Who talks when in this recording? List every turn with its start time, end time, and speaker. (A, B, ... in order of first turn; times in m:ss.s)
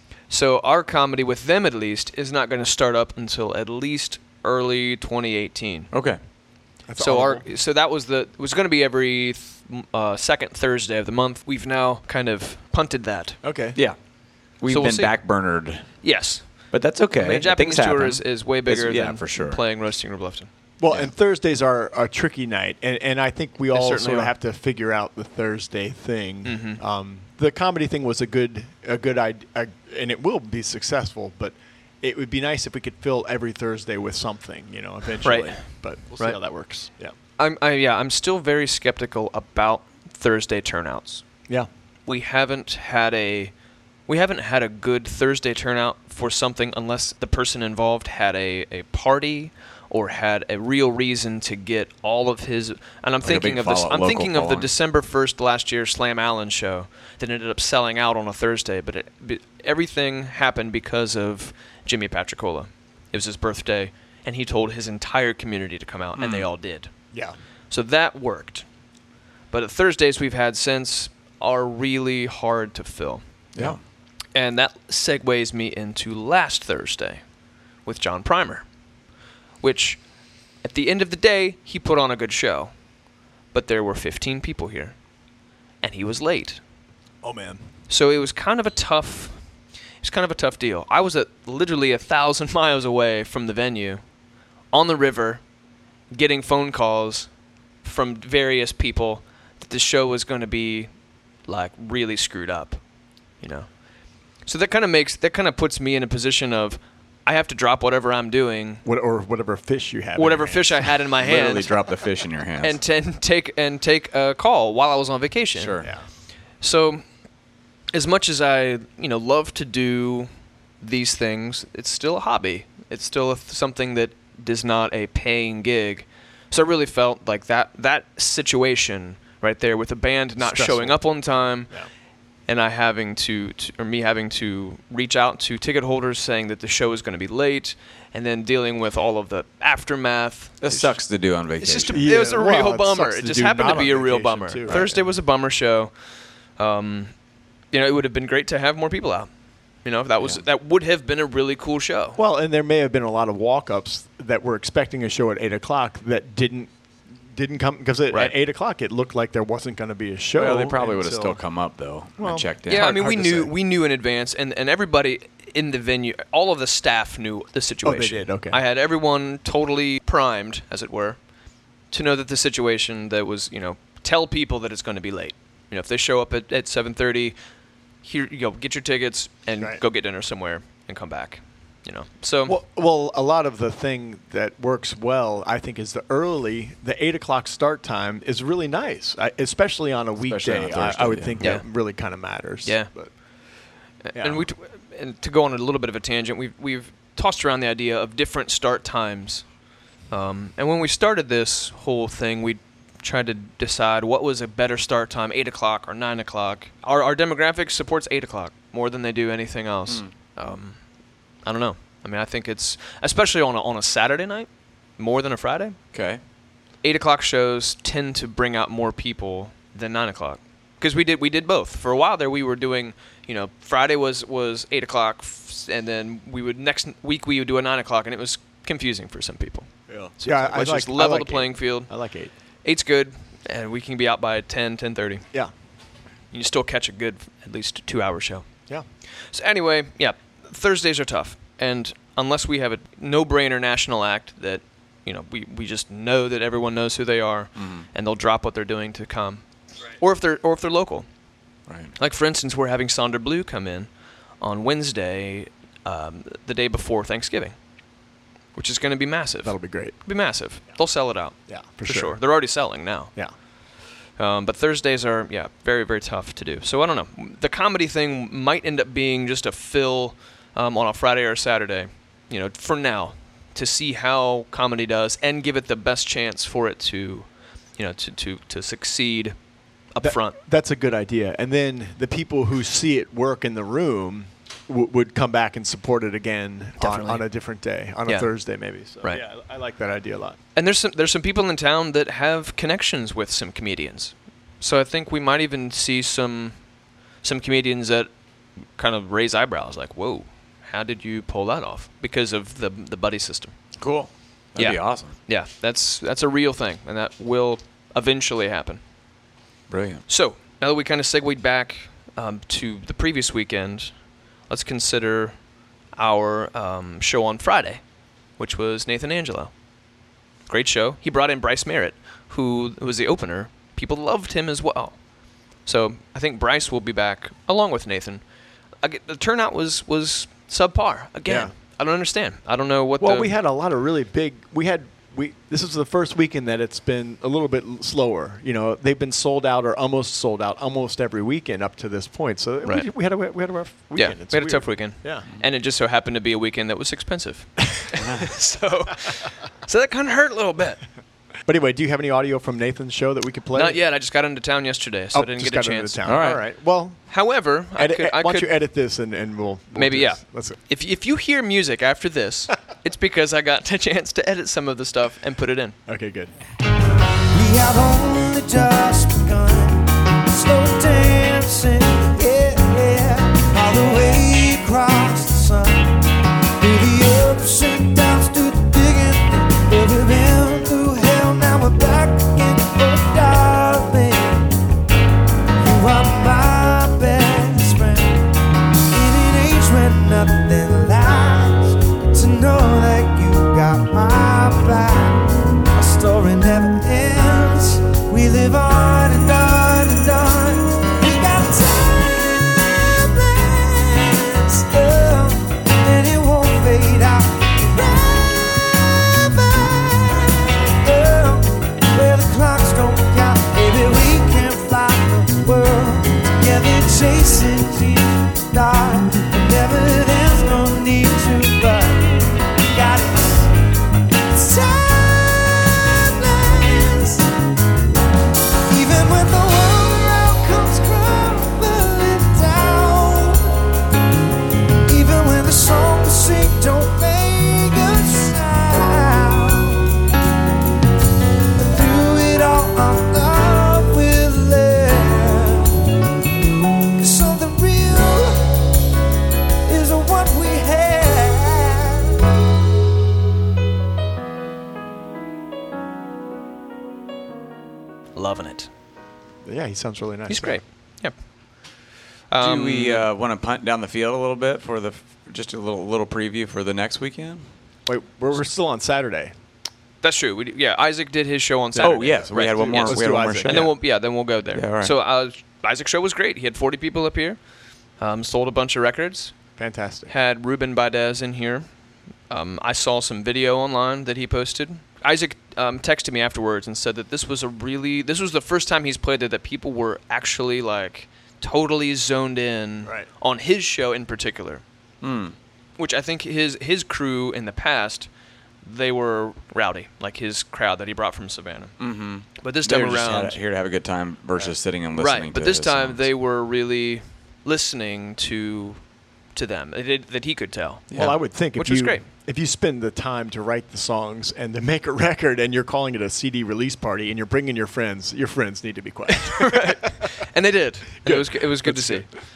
0:00.3-0:05.9 A
0:05.9-0:06.2 B
0:06.9-0:07.4 C
0:07.0-0:13.4 A
0:13.4-0:13.8 C
0:14.6-0:16.0 B
0:14.7-0:15.1 A
0:16.0-0:16.5 A
0:16.7-0:19.6 B
0:17.2-0:20.5 A
0:20.8-0:37.1 C
0:23.7-0:24.3 A
0:26.4-0:26.8 A
0:35.2-0:36.4 A
0:37.4-0:41.2 A
0:42.1-0:43.5 A
0:44.1-1:06.9 A
0:53.2-0:54.7 B
1:06.2-1:06.5 B
1:07.7-1:08.6 A
1:09.5-1:13.2 A
1:14.3-1:17.2 A
1:17.8-1:18.6 A
1:19.6-1:20.0 A
1:20.6-1:22.7 A
1:23.5-1:25.0 A
1:25.8-1:26.6 A
1:27.2-1:27.6 C
1:27.9-1:29.4 A
1:30.0-1:34.0 A
1:34.7-1:35.4 A
1:36.1-1:37.3 A
1:37.8-1:40.9 A
1:41.5-1:42.8 A
1:43.4-1:43.7 A
1:44.4-1:48.8 A
1:48.8-1:50.9 C
1:50.2-1:51.8 A
1:51.2-1:52.8 B
1:52.6-1:55.8 A
1:55.5-1:55.9 B
1:56.6-1:57.0 A
1:57.9-2:11.7 A
2:10.4-2:11.0 C
2:12.5-2:21.0 A
2:20.6-2:22.1 B
2:21.6-2:25.9 A
2:21.9-2:25.0 C
2:26.6-2:27.1 A
2:27.7-2:29.3 A
2:29.8-2:32.2 A
2:32.2-2:36.7 C
2:37.3-2:41.4 C
2:40.4-2:43.0 B
2:42.2-2:43.5 C
2:42.7-2:51.2 A
2:47.8-2:48.6 C
2:51.9-2:57.4 A
2:58.0-3:02.5 A
3:02.5-3:13.1 C
3:10.2-3:11.5 B
3:11.4-3:11.7 A
3:12.6-3:12.9 A
3:14.0-3:19.4 A
3:14.1-3:14.5 C
3:20.1-3:30.8 A
3:31.4-3:35.8 A
3:35.9-3:36.2 B
3:36.8-3:51.9 A
3:49.9-3:52.3 C
3:52.6-3:55.2 A
3:56.3-3:58.5 A
3:59.3-4:09.4 A
4:07.6-4:07.9 B
4:10.0-4:11.1 A
4:11.7-4:11.9 B
4:12.0-4:13.9 A
4:14.4-4:17.5 A
4:18.5-4:23.1 A
4:19.4-4:20.0 C
4:21.5-4:22.2 C
4:24.2-4:39.4 A
4:39.9-4:40.4 A
4:40.0-4:50.4 C
4:46.8-4:47.2 A
4:50.6-4:56.6 A
4:57.2-4:58.1 A
4:58.8-5:03.5 A
5:03.8-5:05.1 B
5:04.6-5:08.8 A
5:09.7-5:10.0 B
5:10.1-5:13.9 A
5:14.5-5:15.4 A
5:16.0-5:17.8 A
5:18.4-5:19.5 A
5:20.5-5:25.0 A
5:25.6-5:28.2 A
5:28.8-5:33.3 A
5:31.3-5:31.5 C
5:33.0-5:45.2 C
5:44.0-5:50.8 A
5:51.5-5:53.8 C
5:53.5-5:56.1 A
5:55.1-5:57.0 C
5:56.0-5:56.4 B
5:57.1-5:58.5 A
5:57.8-6:00.6 C
5:59.7-6:05.8 A
6:05.9-6:06.3 C
6:07.3-6:16.0 D
6:16.6-6:24.5 D
6:25.6-6:28.2 D
6:28.9-6:35.2 D
6:35.7-7:03.5 D
7:04.4-7:07.2 D
7:08.7-7:13.4 D
7:14.9-7:19.8 D
7:21.6-7:25.6 D
7:27.0-7:28.3 D
7:29.7-7:32.1 D
7:38.1-7:38.7 A
7:39.4-7:40.6 C
7:40.3-7:41.1 A
7:42.3-7:43.1 A
7:42.4-7:47.5 B
7:47.9-7:49.3 C
7:50.0-7:57.4 A
7:51.8-7:53.7 C
7:51.8-7:53.8 B
7:54.5-7:55.0 B
7:58.0-7:59.3 A
7:59.6-8:00.1 C
8:00.1-8:01.7 A
8:02.3-8:14.6 A
8:15.0-8:15.3 B
8:15.8-8:18.1 A
8:18.6-8:21.8 A
8:21.8-8:26.0 B
8:22.4-8:23.4 A
8:24.9-8:28.8 A
8:29.3-8:30.9 A
8:30.9-8:39.9 C
8:31.5-8:32.0 A
8:39.1-8:42.1 A
8:41.0-8:42.1 C